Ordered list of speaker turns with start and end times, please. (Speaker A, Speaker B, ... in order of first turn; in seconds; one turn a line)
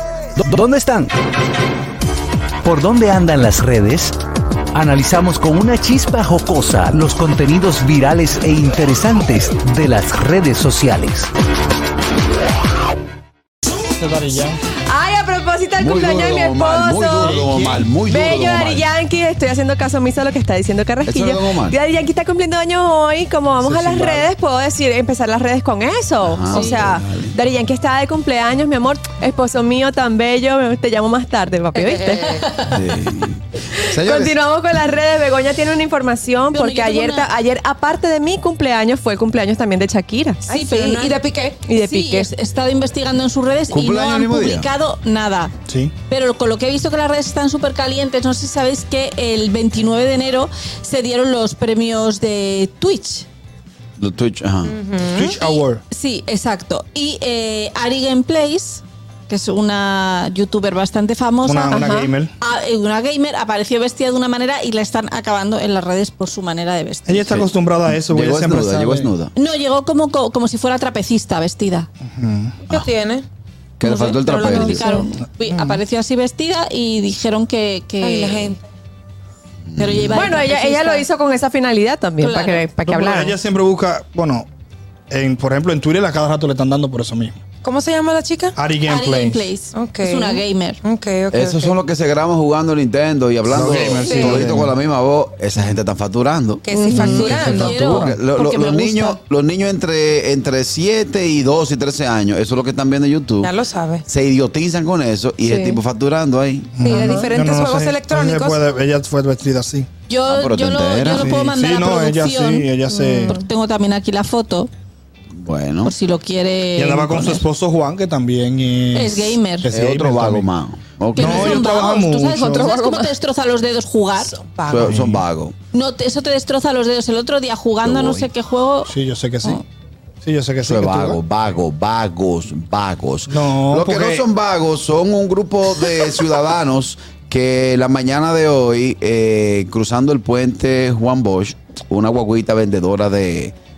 Speaker A: 0.4-1.1
Speaker A: 2.6-4.2
Speaker A: 4.7-11.3
Speaker B: 13.8-14.6
Speaker C: 14.9-17.4
Speaker D: 15.8-18.9
Speaker B: 17.2-17.8
Speaker C: 18.1-32.4
Speaker D: 21.1-21.8
Speaker B: 23.6-24.3
Speaker D: 26.2-27.4
Speaker E: 31.8-32.5
Speaker F: 32.4-32.8
Speaker D: 32.7-34.4
Speaker C: 33.8-40.5
Speaker F: 36.5-37.3
Speaker E: 40.5-41.6
Speaker F: 40.5-45.5
Speaker C: 41.7-42.3
Speaker D: 43.7-44.7
Speaker B: 45.7-45.9
Speaker F: 46.1-53.3
Speaker D: 54.0-54.8
Speaker E: 54.6-55.6
Speaker B: 55.1-55.8
Speaker F: 55.9-67.3
Speaker B: 61.4-62.3
Speaker C: 61.7-62.1
Speaker B: 67.1-69.1
Speaker D: 67.3-69.3
Speaker F: 69.3-71.9
Speaker B: 72.1-72.6
Speaker E: 72.7-73.3
Speaker D: 73.8-74.9
Speaker F: 73.8-78.6
Speaker C: 74.5-75.1
Speaker B: 75.5-75.8
Speaker E: 78.0-78.6
Speaker D: 79.7-80.3
Speaker F: 79.8-81.1
Speaker C: 80.1-83.4
Speaker F: 82.2-82.7
Speaker B: 82.8-84.5
Speaker B: 85.1-87.4
Speaker E: 87.6-88.5
Speaker B: 88.6-89.5
Speaker F: 88.8-90.8
Speaker E: 89.7-91.8
Speaker D: 91.3-96.6
Speaker B: 93.5-94.7
Speaker E: 93.8-94.4
Speaker E: 96.6-97.9
Speaker C: 96.7-97.1
Speaker B: 97.0-98.2
Speaker F: 97.0-99.2
Speaker D: 97.9-103.5
Speaker E: 103.4-104.0
Speaker D: 104.1-106.7
Speaker C: 105.4-105.8
Speaker B: 106.8-109.9
Speaker E: 106.8-108.6
Speaker C: 106.9-107.3
Speaker F: 110.1-114.7
Speaker D: 110.3-111.3
Speaker B: 111.1-113.4
Speaker C: 112.9-113.4
Speaker D: 115.3-115.9
Speaker F: 115.8-117.4
Speaker B: 116.8-120.5
Speaker F: 118.9-119.7
Speaker D: 119.7-121.7
Speaker F: 121.2-124.3
Speaker B: 121.2-123.1
Speaker E: 124.3-124.9
Speaker D: 124.7-125.6
Speaker B: 124.8-125.2
Speaker F: 125.7-129.6
Speaker D: 127.8-128.3
Speaker B: 128.9-129.6
Speaker B: 130.2-131.2
Speaker D: 130.7-143.5
Speaker B: 133.3-134.2